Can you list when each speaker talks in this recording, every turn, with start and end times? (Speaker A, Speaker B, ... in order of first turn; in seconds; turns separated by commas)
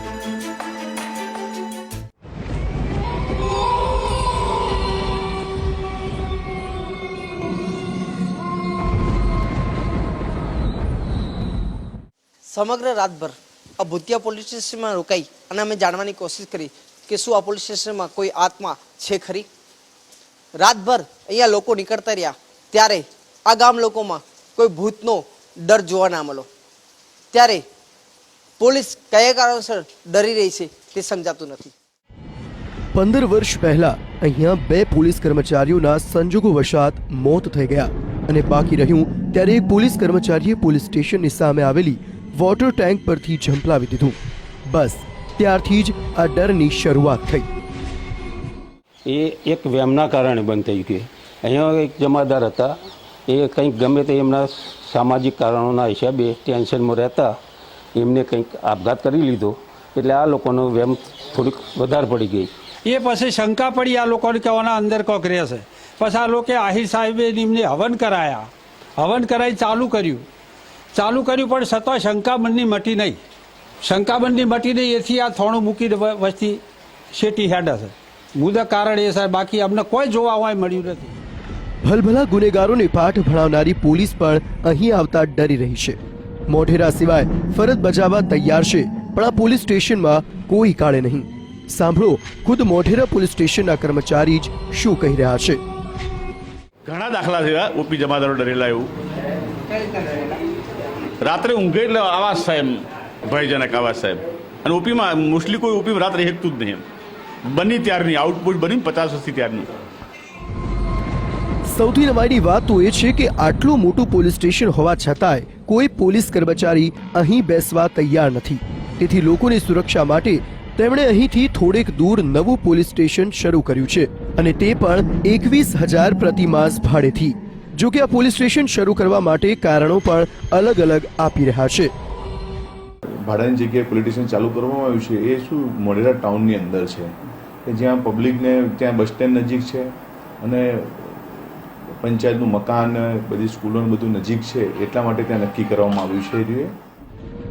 Speaker A: 12.5-19.5, Speaker A: 20.6-26.5, Speaker A: 27.3-27.6, Speaker A: 28.6-31.7, Speaker B: 32.9-44.2, Speaker B: 44.7-47.5, Speaker C: 49.0-57.4, Speaker C: 57.9-62.5, Speaker D: 62.8-70.2, Speaker D: 70.9-73.2, Speaker D: 73.8-76.6, Speaker D: 77.1-81.1, Speaker B: 81.8-86.0, Speaker B: 86.5-95.6, Speaker E: 96.8-98.9, Speaker E: 101.2-102.7, Speaker E: 103.2-106.8, Speaker E: 107.5-109.7, Speaker B: 111.7-131.9, Speaker F: 133.1-137.1, Speaker F: 137.6-146.7